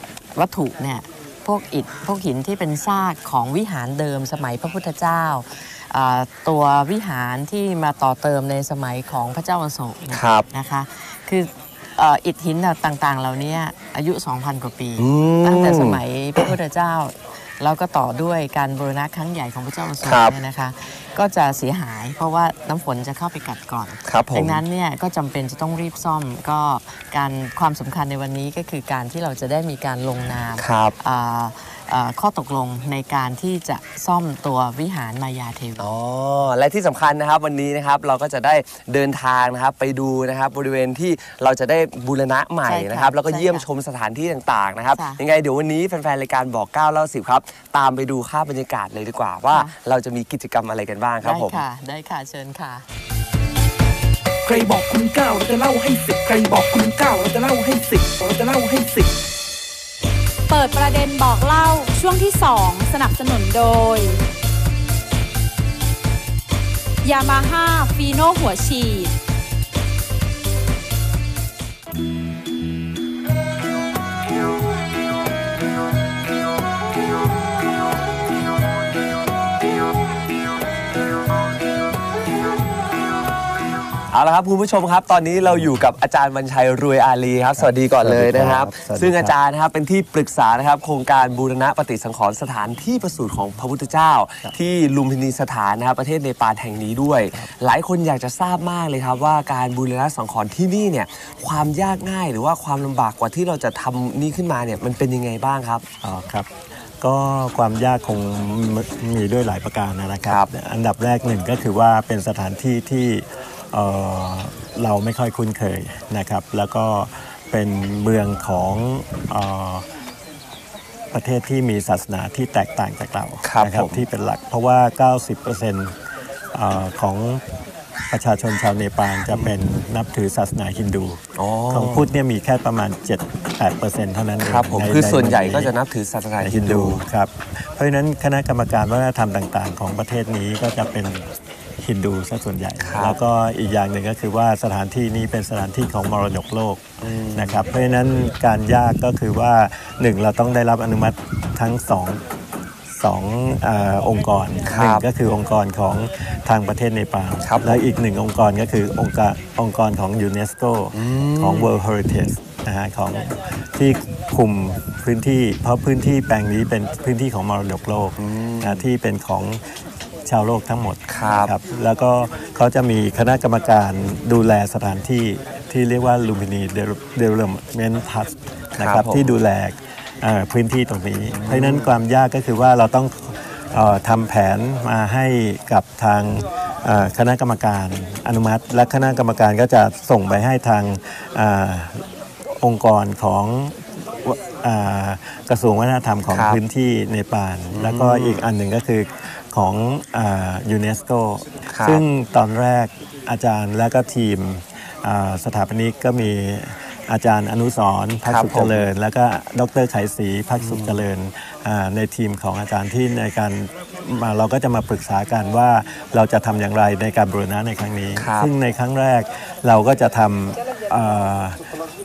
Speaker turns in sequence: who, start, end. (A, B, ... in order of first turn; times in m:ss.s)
0:00.3-0:35.9 A
0:10.1-0:10.5 B
0:15.0-0:16.5 B
0:20.0-0:20.3 B
0:24.0-0:24.6 B
0:30.6-0:31.0 B
0:35.8-0:51.6 B
0:42.6-0:43.6 A
0:44.9-0:45.2 A
0:49.5-0:49.7 A
0:51.2-0:52.8 A
0:54.4-0:59.1 C
1:00.5-1:04.2 D
1:07.0-1:09.1 D
1:24.1-1:45.9 B
1:27.6-1:29.3 E
1:46.0-1:46.5 E
1:47.0-1:59.8 E
1:50.2-1:50.5 B
2:01.1-2:05.9 E
2:03.4-2:04.0 B
2:06.5-2:07.4 E
2:08.1-2:15.7 E
2:09.3-2:09.5 B
2:11.4-2:12.1 B
2:14.4-2:17.0 B
2:16.4-2:21.3 E
2:21.8-2:32.2 E
2:22.8-2:23.2 B
2:27.0-2:27.6 B
2:33.0-2:49.6 E
2:34.6-2:35.0 B
2:37.4-2:37.8 B
2:40.9-2:41.7 B
2:48.2-2:48.8 B
2:50.2-3:12.0 E
2:51.1-2:51.5 B
2:58.8-2:59.2 B
3:01.3-3:01.9 B
3:12.6-3:41.6 E
3:16.3-3:16.6 B
3:17.7-3:18.4 B
3:21.7-3:22.0 B
3:28.2-3:28.9 B
3:30.6-3:31.0 B
3:38.2-3:38.5 B